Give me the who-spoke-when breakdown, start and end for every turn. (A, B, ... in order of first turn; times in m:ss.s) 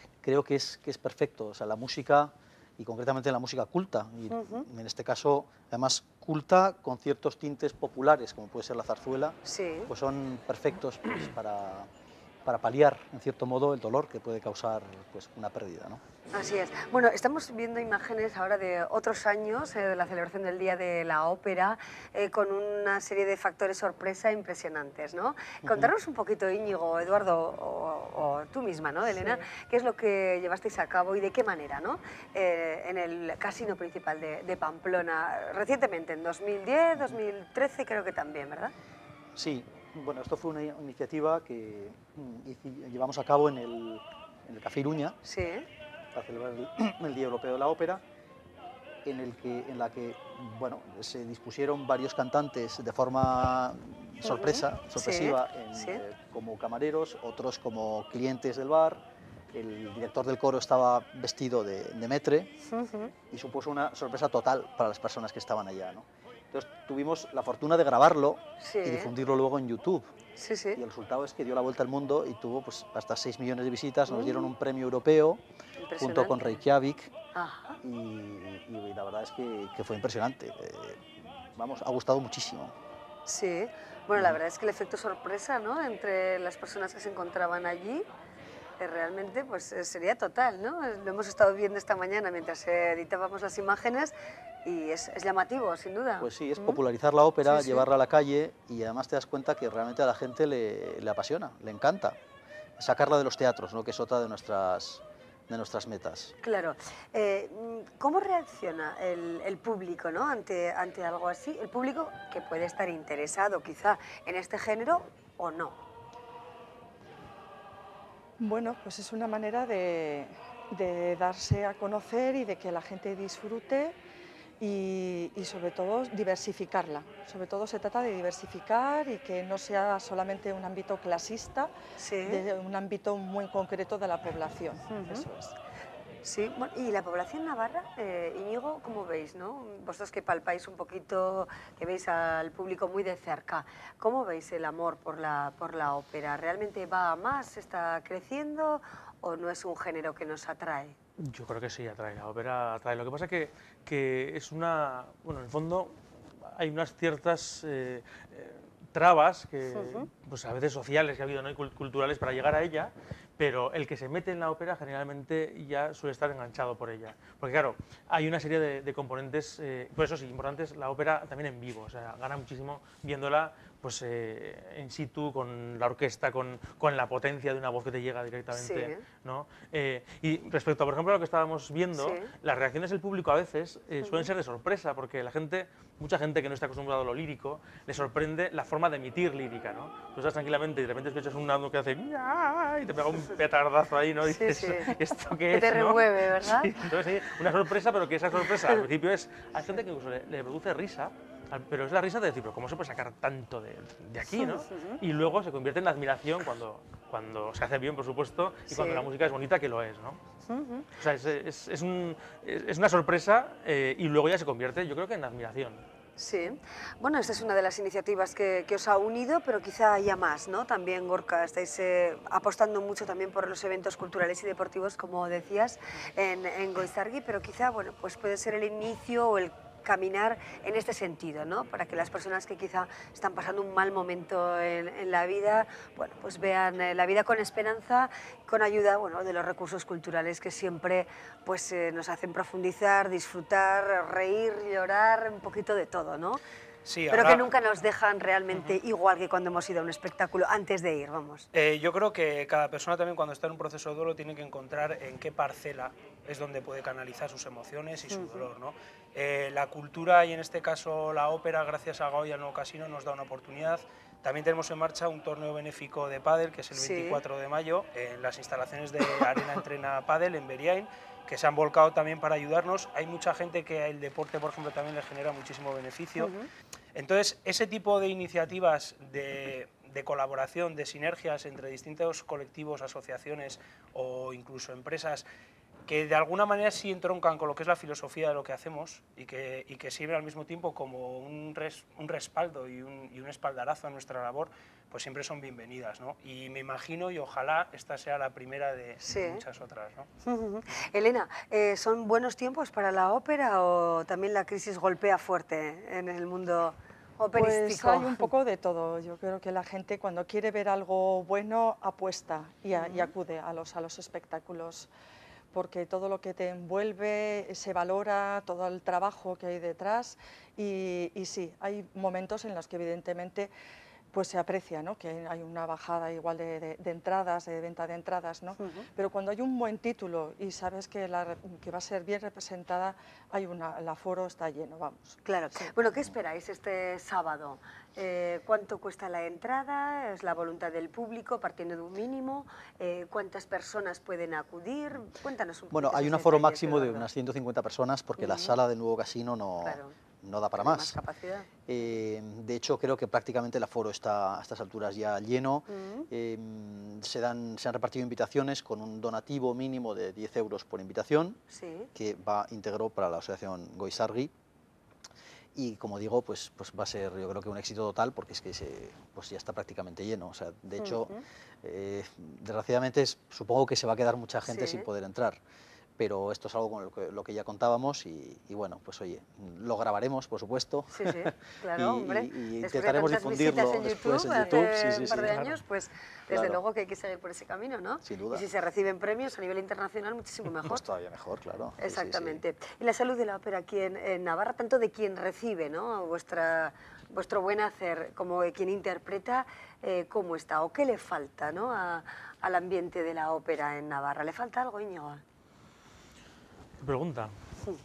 0:00.2-0:11.9 A
0:04.3-0:04.6 B
0:09.4-0:09.9 B
0:12.4-0:16.0 A
0:16.3-0:38.7 B
0:25.6-0:25.9 A
0:39.4-0:45.2 A
0:45.2-0:45.7 B
0:46.1-0:48.0 A
0:49.0-1:02.5 A
0:54.2-0:56.0 B
1:02.6-1:03.1 B
1:03.3-1:10.1 A
1:08.6-1:09.1 B
1:10.4-1:10.8 B
1:10.8-1:15.4 A
1:14.1-1:14.5 B
1:15.8-1:16.4 B
1:16.0-1:17.1 A
1:17.3-1:17.8 B
1:17.8-1:21.0 A
1:21.5-1:22.7 A
1:23.2-1:28.0 B
1:28.8-1:34.1 B
1:34.6-1:36.8 B
1:36.2-1:42.2 A
1:37.4-1:37.8 B
1:42.8-1:46.3 A
1:46.4-1:55.8 B
1:58.4-2:04.0 C
2:04.6-2:11.7 C
2:12.0-2:12.4 B
2:12.2-2:15.5 C
2:14.9-2:15.2 B
2:16.2-2:31.0 B
2:31.2-3:30.2 D
2:39.7-2:40.1 B
2:58.5-2:59.0 B
3:02.0-3:02.3 B
3:04.0-3:04.3 B
3:14.2-3:14.9 B
3:15.5-3:16.7 B
3:24.2-3:25.0 B
3:28.7-3:29.1 B
3:30.5-3:30.9 B
3:30.9-3:35.8 D
3:36.2-4:06.4 B
4:06.8-4:07.5 E
4:07.1-4:11.5 B
4:11.5-4:36.3 E
4:18.0-4:18.5 B
4:26.7-4:27.2 B
4:36.2-4:36.5 B
4:36.9-4:45.3 E
4:45.8-5:00.1 E
4:59.0-4:59.4 B
5:00.2-5:08.2 B
5:07.3-5:14.9 C
5:12.7-5:13.1 B
5:15.5-5:23.5 C
5:24.1-5:35.7 C
5:28.6-5:28.8 B
5:35.2-5:47.1 B
5:45.7-5:51.0 A
5:48.2-5:48.5 B
5:49.6-5:49.9 B
5:50.5-5:51.5 B
5:51.6-6:01.4 A
5:55.7-5:56.1 B
6:01.5-6:01.9 B
6:01.9-6:04.3 A
6:05.6-6:15.4 A
6:10.8-6:11.2 B
6:14.4-6:14.8 B
6:16.0-6:25.6 A
6:20.9-6:30.8 B
6:26.3-6:26.6 A
6:28.0-6:28.5 A
6:30.6-6:32.4 A
6:31.8-6:45.2 B
6:46.8-6:47.3 D